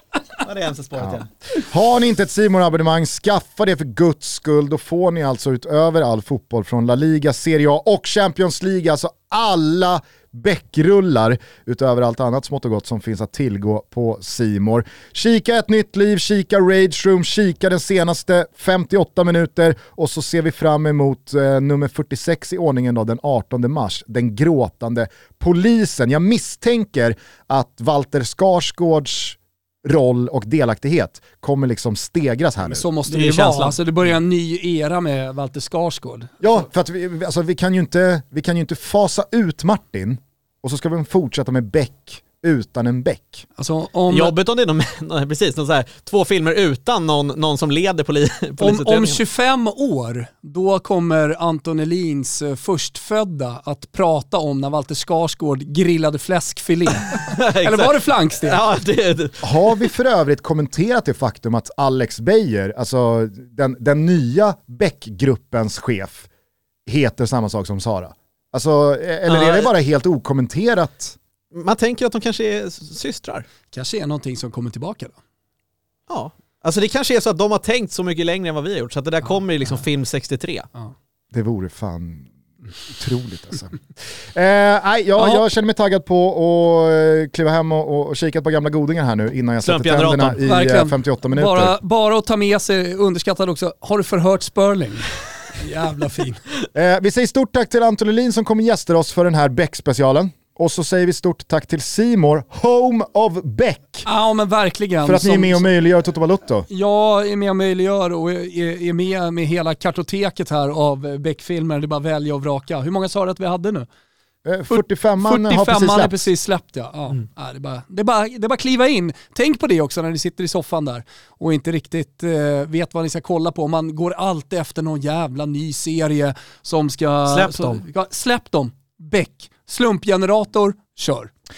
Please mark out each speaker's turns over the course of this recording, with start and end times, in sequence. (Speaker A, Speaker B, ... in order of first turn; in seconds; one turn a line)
Speaker A: 0.4-1.3
Speaker B: 1.0-32.9
Speaker C: 32.6-36.3
Speaker A: 33.1-33.8
Speaker B: 36.4-43.5
Speaker C: 43.6-44.3
Speaker A: 44.1-49.2
Speaker C: 48.6-58.6
Speaker A: 57.0-59.5
Speaker B: 59.4-66.3
Speaker B: 66.9-71.2
Speaker A: 69.3-69.7
Speaker A: 71.5-73.5
Speaker C: 73.7-75.2
Speaker A: 76.1-80.7
Speaker B: 81.3-82.3
Speaker B: 82.8-91.8
Speaker A: 89.6-90.4
Speaker C: 90.5-96.4
Speaker B: 96.7-104.1
Speaker C: 104.0-105.7
Speaker B: 105.0-106.7
Speaker C: 106.7-113.9
Speaker B: 114.5-116.3
Speaker C: 114.7-131.3
Speaker A: 127.3-127.8